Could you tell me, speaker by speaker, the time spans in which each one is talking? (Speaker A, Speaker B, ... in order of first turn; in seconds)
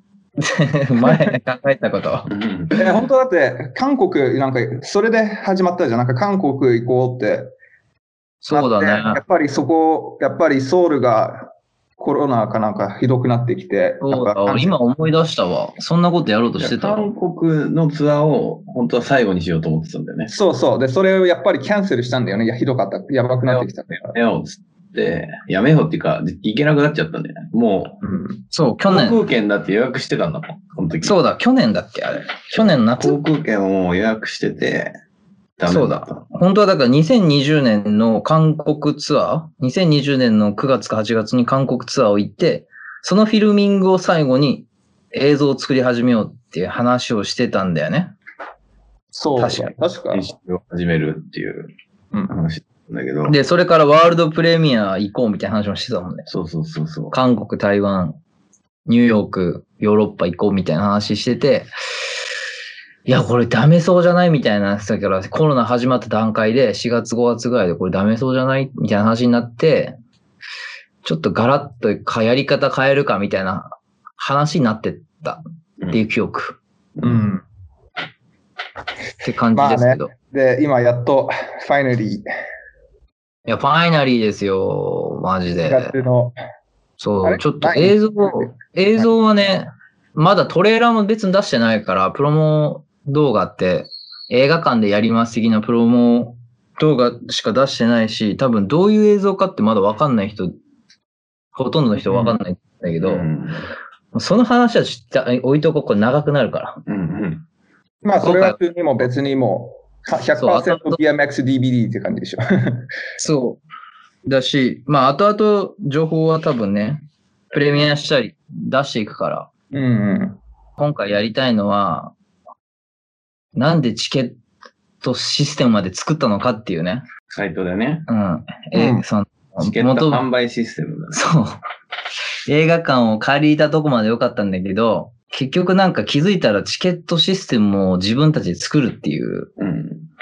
Speaker A: 0.4-2.3, 8.4-9.2, 14.0-17.1, 28.5-29.2, 31.0-33.2, 35.7-48.1, 49.4-49.7, 53.2-56.3, 57.1-58.2, 58.9-61.7, 63.0-70.0, 71.0-76.6, 79.2-80.1, 83.5-85.9, 87.0-100.5, 101.5-103.3, 104.1-106.8, 108.2-108.6, 110.4-111.0, 113.2-113.6, 114.2-119.5, 120.8-122.1, 123.5-124.4, 125.0-127.0, 128.1-130.2, 131.1-131.6, 132.5-139.5
Speaker B: 2.3-2.8, 16.6-20.3, 23.5-28.0, 28.9-31.2, 32.5-34.9, 35.6-36.2, 50.1-51.7, 52.3-53.4, 56.3-57.1, 77.0-77.2, 103.0-103.6, 106.9-107.4, 127.3-128.1, 129.6-131.2, 139.6-140.0
Speaker C: 2.7-7.5, 8.5-14.8, 20.3-24.1, 28.0-28.4, 49.1-50.3, 77.0-77.4, 79.5-82.3, 85.6-86.3, 87.2-89.0, 108.0-112.9, 119.7-120.4, 128.7-129.0